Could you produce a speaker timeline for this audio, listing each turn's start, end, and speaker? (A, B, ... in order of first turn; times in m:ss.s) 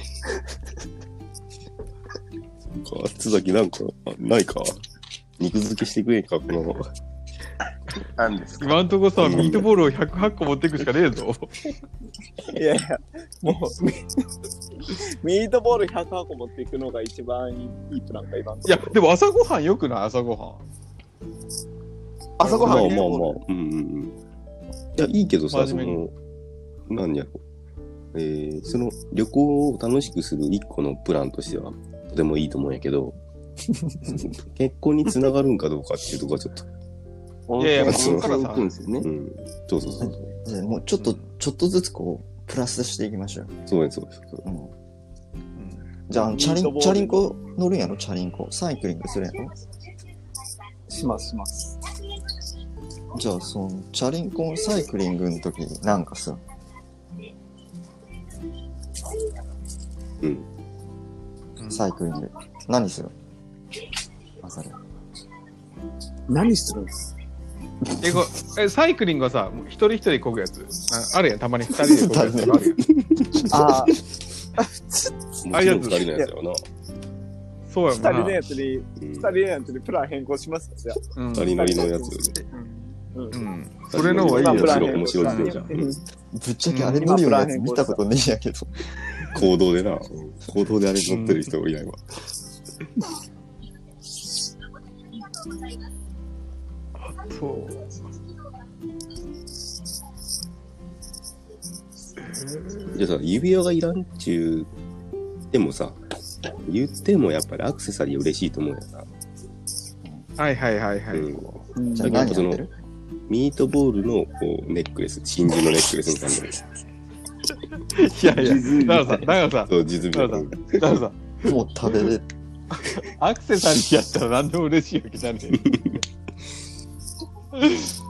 0:02.7-0:04.8 A
0:05.4-0:06.8 A
0:08.0-0:09.4 B
0:08.6-0:11.5 C
0:09.2-0:09.7 A
0:12.5-0:13.9 D
0:14.8-0:19.0 D
0:18.6-0:20.6 C
0:22.4-0:23.4 D
0:22.4-0:23.0 C
0:22.6-0:24.1 A
0:24.9-0:26.1 A
0:25.5-0:26.0 C
0:26.9-0:27.4 A
0:28.1-0:33.2 A
0:34.0-0:36.7 A
0:37.5-0:39.1 B
0:37.6-0:38.7 C
0:37.8-0:38.3 A
0:39.0-0:40.2 A
0:40.0-0:43.5 E
0:41.0-0:41.2 C
0:43.7-0:44.4 A
0:44.4-0:44.7 E
0:45.6-0:45.8 C
0:46.1-0:49.5 E
0:46.2-0:47.2 D
0:50.9-0:51.8 D
0:53.1-0:56.4 E
1:00.2-1:00.5 A
1:01.6-1:01.9 C
1:01.7-1:03.1 E
1:04.4-1:04.8 E
1:06.3-1:07.0 D
1:08.0-1:12.8 C
1:08.0-1:08.3 E
1:11.7-1:12.8 E
1:13.3-1:13.9 E
1:13.5-1:14.0 D
1:14.6-1:15.0 D
1:15.4-1:16.6 A
1:15.5-1:16.1 C
1:17.7-1:18.4 C
1:17.9-1:23.4 D
1:19.0-1:19.3 A
1:21.2-1:21.7 C
1:21.3-1:22.3 A
1:23.3-1:25.6 C
1:23.9-1:26.0 A
1:24.0-1:26.0 D
1:26.3-1:28.8 E
1:26.7-1:27.1 C
1:27.0-1:28.0 D
1:29.3-1:32.0 A
1:31.1-1:31.5 C
1:37.0-1:37.8 C
1:42.2-1:43.0 C
1:42.9-1:44.7 A
1:45.5-1:46.0 A
1:46.6-1:49.1 A
1:50.4-1:51.6 C
1:51.1-1:52.6 A
1:51.7-1:52.3 D
1:51.9-1:52.7 E
1:53.3-1:56.6 A
1:57.9-2:01.5 C
1:58.3-1:59.3 B
1:59.7-2:00.8 A
2:01.4-2:02.3 E
2:02.7-2:05.8 C
2:05.6-2:06.0 A
2:07.6-2:07.9 C